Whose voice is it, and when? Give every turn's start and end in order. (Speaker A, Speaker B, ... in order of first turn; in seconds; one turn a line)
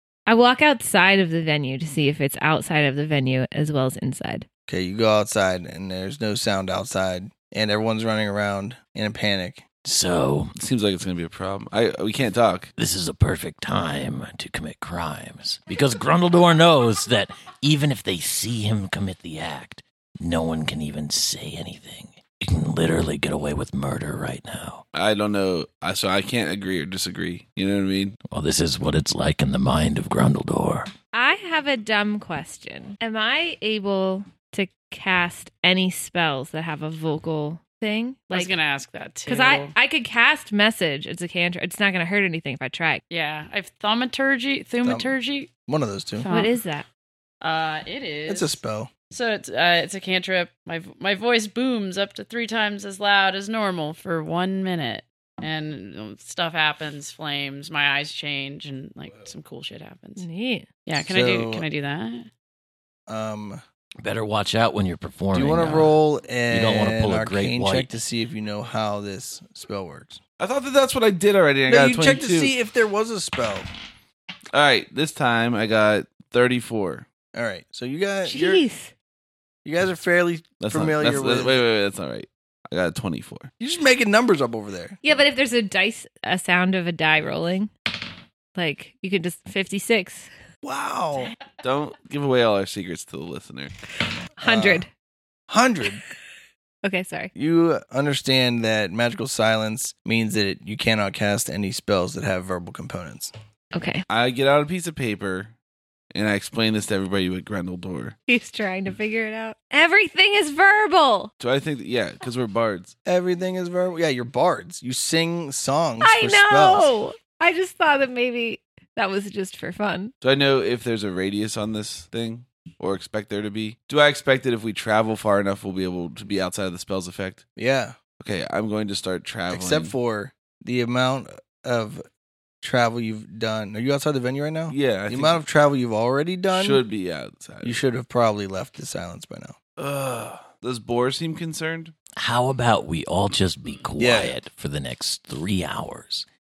Speaker A: 0.3-4.5
Speaker B: 4.7-9.7
Speaker C: 9.8-10.5
Speaker D: 10.6-12.7
Speaker C: 12.8-24.9
Speaker D: 24.9-28.2
Speaker C: 28.3-30.9
Speaker A: 31.1-38.5
Speaker E: 38.3-39.8
Speaker A: 39.3-43.0
Speaker E: 43.1-45.5
Speaker B: 44.8-45.1
Speaker B: 45.7-46.3
Speaker E: 46.2-46.6
Speaker A: 46.3-46.9
Speaker E: 47.4-48.6
Speaker B: 48.3-48.9
Speaker E: 49.1-60.2
Speaker A: 60.2-60.7
Speaker E: 60.9-62.3
Speaker B: 61.0-61.7
Speaker B: 63.1-63.6
Speaker C: 64.0-68.0
Speaker B: 65.3-70.2
Speaker D: 70.4-72.5
Speaker B: 71.7-73.7
Speaker D: 74.5-77.1
Speaker B: 77.3-78.6
Speaker A: 78.3-78.9
Speaker B: 79.7-81.6
Speaker D: 80.6-83.5
Speaker B: 83.6-85.0
Speaker A: 85.0-87.7
Speaker A: 88.5-90.3
Speaker B: 90.6-91.3
Speaker D: 91.6-93.7
Speaker A: 94.4-94.9
Speaker B: 94.4-94.9
Speaker B: 95.5-96.0
Speaker A: 96.8-97.3
Speaker B: 97.3-103.3
Speaker A: 103.7-104.0
Speaker D: 104.1-105.5
Speaker D: 106.1-108.2
Speaker A: 108.3-111.3
Speaker D: 111.4-113.0
Speaker B: 113.1-116.9
Speaker A: 116.0-120.1
Speaker D: 120.2-127.5
Speaker B: 127.6-128.0
Speaker D: 128.2-129.9
Speaker B: 129.5-132.0
Speaker B: 132.6-136.8
Speaker D: 134.7-135.4
Speaker D: 136.5-137.8
Speaker B: 137.6-139.6
Speaker D: 139.8-141.9
Speaker C: 142.2-146.3
Speaker B: 144.0-144.4